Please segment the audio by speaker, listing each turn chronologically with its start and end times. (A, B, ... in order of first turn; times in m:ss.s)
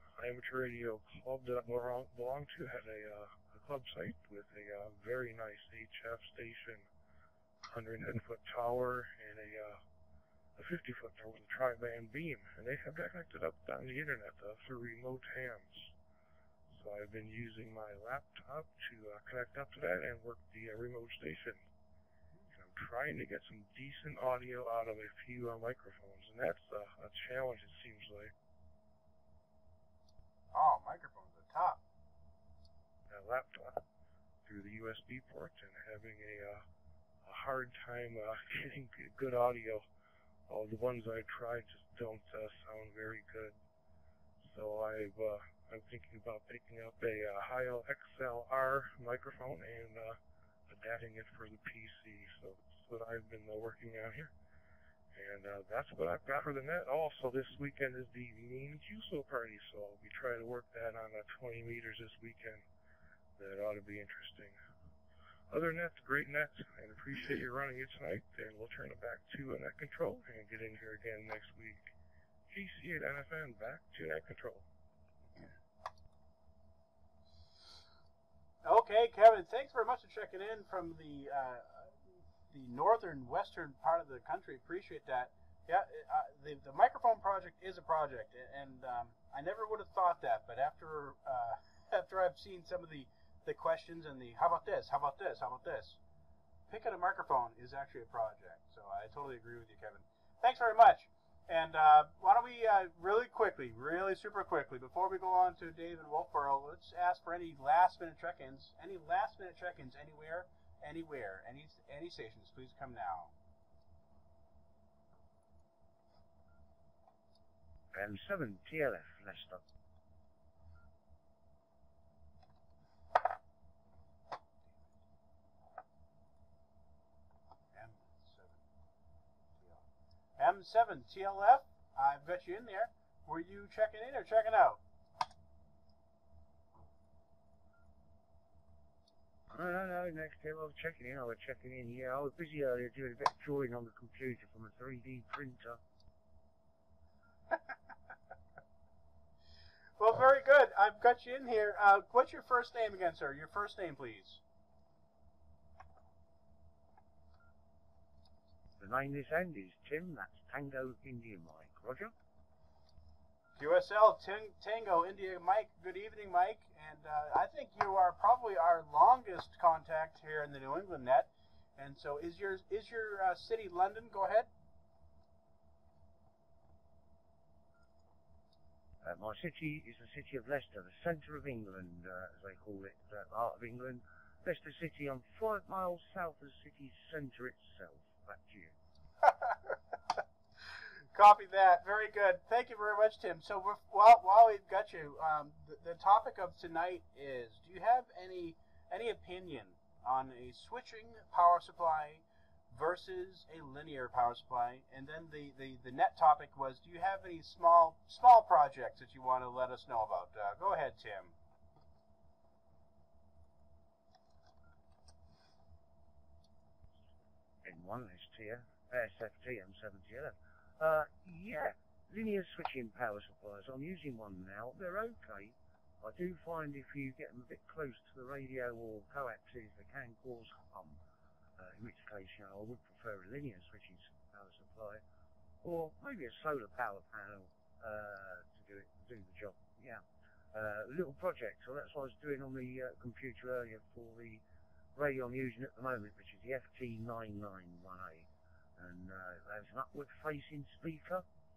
0:00.2-0:06.9 A
0:07.6-0:09.8 A
0:10.6-0:15.9 A
0:16.7-0:21.7 A
0:22.5-0:28.3 A
0:30.5-0:31.8 B
0:33.1-0:33.8 A
0:34.4-0:36.6 A
0:37.2-0:39.8 A
0:40.5-0:43.6 A
0:44.4-0:54.3 A
0:55.1-1:02.6 A
1:03.4-1:04.6 A
1:05.5-1:11.9 A
1:12.5-1:14.7 A
1:18.6-1:36.0 B
1:36.7-1:53.3 B
1:57.9-1:59.6 C
2:04.7-2:04.9 B
2:07.7-2:08.6 B
2:09.6-2:09.8 B
2:10.4-2:14.8 B
2:19.5-2:25.8 C
2:30.0-2:34.4 B
2:38.8-2:42.1 C
2:43.6-2:54.5 B
2:59.0-3:08.8 C
3:09.3-3:09.7 B
3:11.1-3:31.4 B
3:37.6-3:51.0 C
3:51.6-3:55.0 C
3:55.6-4:04.4 C
4:04.9-4:11.3 C